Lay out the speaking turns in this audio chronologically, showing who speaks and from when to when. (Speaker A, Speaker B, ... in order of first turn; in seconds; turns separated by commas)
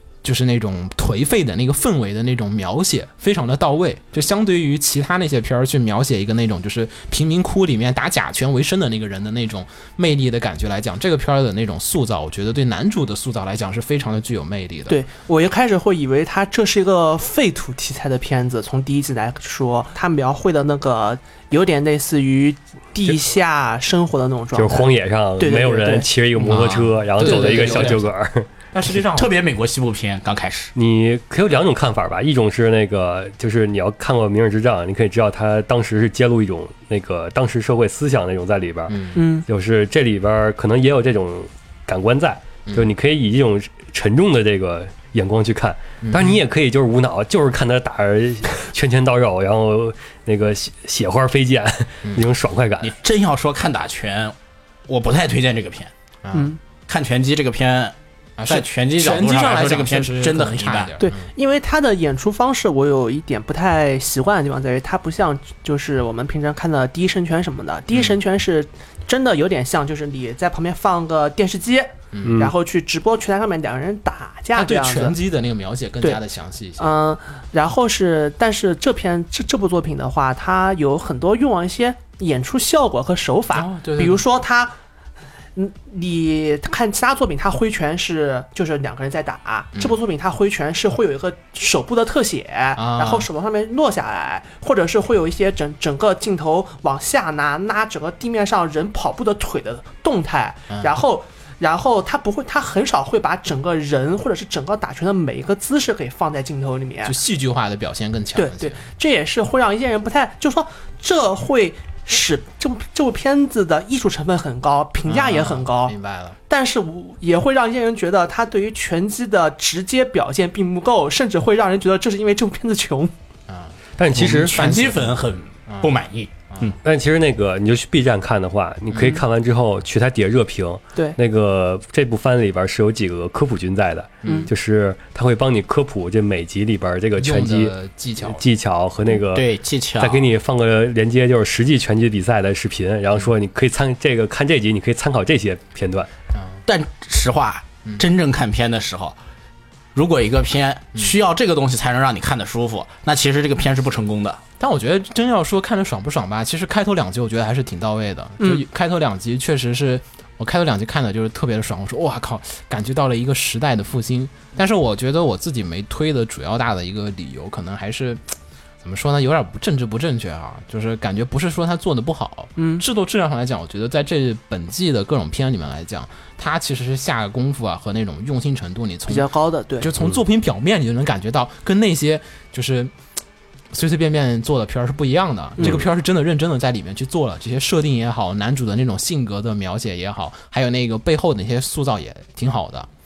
Speaker A: 0.2-15.0, Speaker B: 14.9-26.1, Speaker C: 24.6-28.5, Speaker A: 26.4-28.1, Speaker D: 27.2-28.0, Speaker A: 28.7-29.3, Speaker D: 29.1-30.7, Speaker C: 30.7-52.9, Speaker A: 38.9-39.2, Speaker B: 39.1-39.5, Speaker A: 46.0-46.4, Speaker D: 52.8-54.4, Speaker D: 54.9-55.9, Speaker A: 56.2-56.5, Speaker B: 56.3-56.6, Speaker D: 56.9-57.9, Speaker A: 58.4-61.2, Speaker D: 58.5-61.0, Speaker B: 61.0-75.2, Speaker A: 67.9-68.2, Speaker A: 72.1-72.5, Speaker C: 72.2-72.5, Speaker A: 74.5-77.0, Speaker B: 76.8-84.8, Speaker A: 83.5-84.2, Speaker B: 85.5-107.2, Speaker A: 92.8-93.3, Speaker A: 100.7-101.0, Speaker A: 107.0-108.8, Speaker B: 108.3-116.0, Speaker A: 115.0-116.4, Speaker B: 116.5-123.1, Speaker A: 123.5-126.8, Speaker C: 124.0-124.6, Speaker D: 124.2-126.8, Speaker C: 126.8-137.7, Speaker A: 134.2-134.5, Speaker B: 134.2-134.5, Speaker A: 137.2-138.4, Speaker C: 138.2-146.1, Speaker D: 139.3-140.3, Speaker A: 146.3-146.6, Speaker D: 146.7-149.2, Speaker D: 149.9-154.4, Speaker A: 154.6-168.2, Speaker B: 158.4-158.6, Speaker A: 168.8-182.9, Speaker B: 172.6-172.8, Speaker B: 179.1-179.9, Speaker A: 183.7-192.9